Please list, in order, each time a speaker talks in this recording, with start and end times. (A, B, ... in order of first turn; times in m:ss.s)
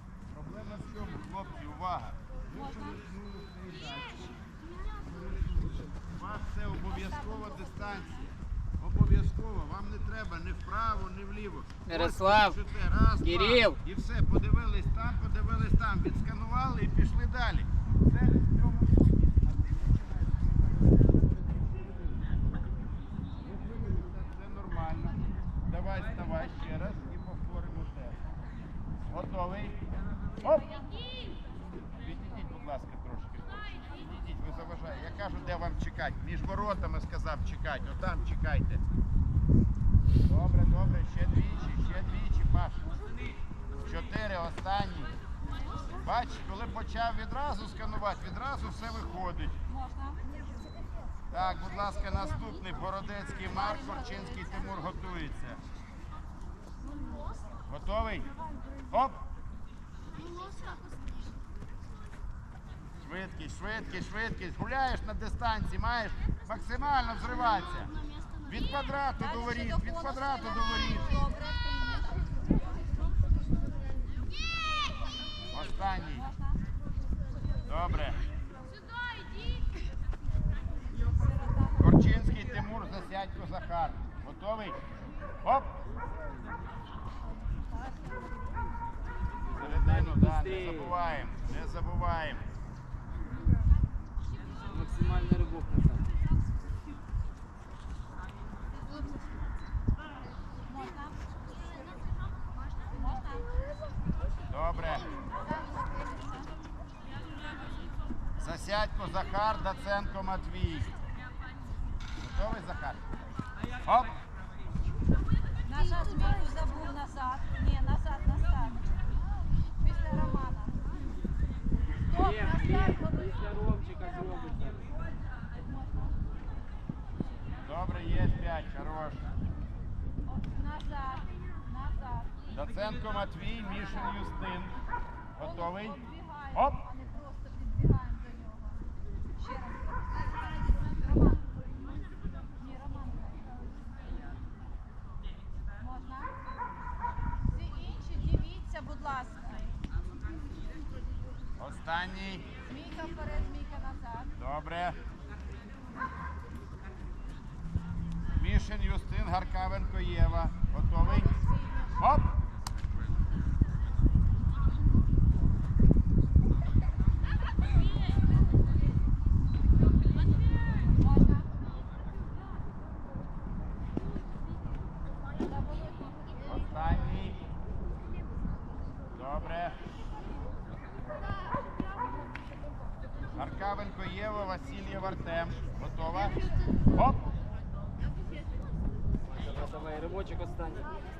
0:00.3-0:04.3 A
0:05.0-0:19.4 A
0:11.9-0:12.6 B
0:13.2-0:13.8 B
0:23.4-0:28.2 A
0:29.1-0:29.8 A
0:30.4-0:30.8 A
0:32.0-0:38.8 A
0:40.2-0:42.8 A
0:43.8-0:45.1 A
0:46.0-0:49.6 A
0:51.3-0:55.6 A
0:57.6-0:58.3 A
0:58.9-0:59.2 A
1:03.0-1:07.9 A
1:08.4-1:11.3 A
1:11.2-1:12.2 C
1:15.5-1:16.3 A
1:17.6-1:18.2 A
1:21.8-1:24.8 A
1:25.4-1:25.7 A
1:29.4-1:32.4 A
1:34.6-1:36.0 B
1:40.7-1:41.1 C
1:43.0-1:43.4 C
1:44.5-1:45.1 A
1:45.5-1:46.4 C
1:48.4-1:50.9 A
1:52.2-1:53.0 A
1:53.8-1:54.1 A
1:55.7-1:58.8 C
1:59.8-2:00.7 C
2:02.4-2:04.7 B
2:07.6-2:09.2 A
2:10.4-2:11.2 C
2:11.8-2:12.2 C
2:12.5-2:14.7 A
2:15.4-2:16.8 A
2:16.0-2:18.6 C
2:19.5-2:19.8 C
2:22.7-2:23.2 C
2:25.8-2:26.3 C
2:27.6-2:29.7 C
2:31.6-2:32.5 A
2:32.7-2:34.3 C
2:34.3-2:35.0 A
2:38.4-2:41.4 A
2:42.0-2:42.4 A
2:56.4-2:57.4 A
2:59.1-2:59.8 A
3:03.4-3:07.2 A
3:09.9-3:10.9 B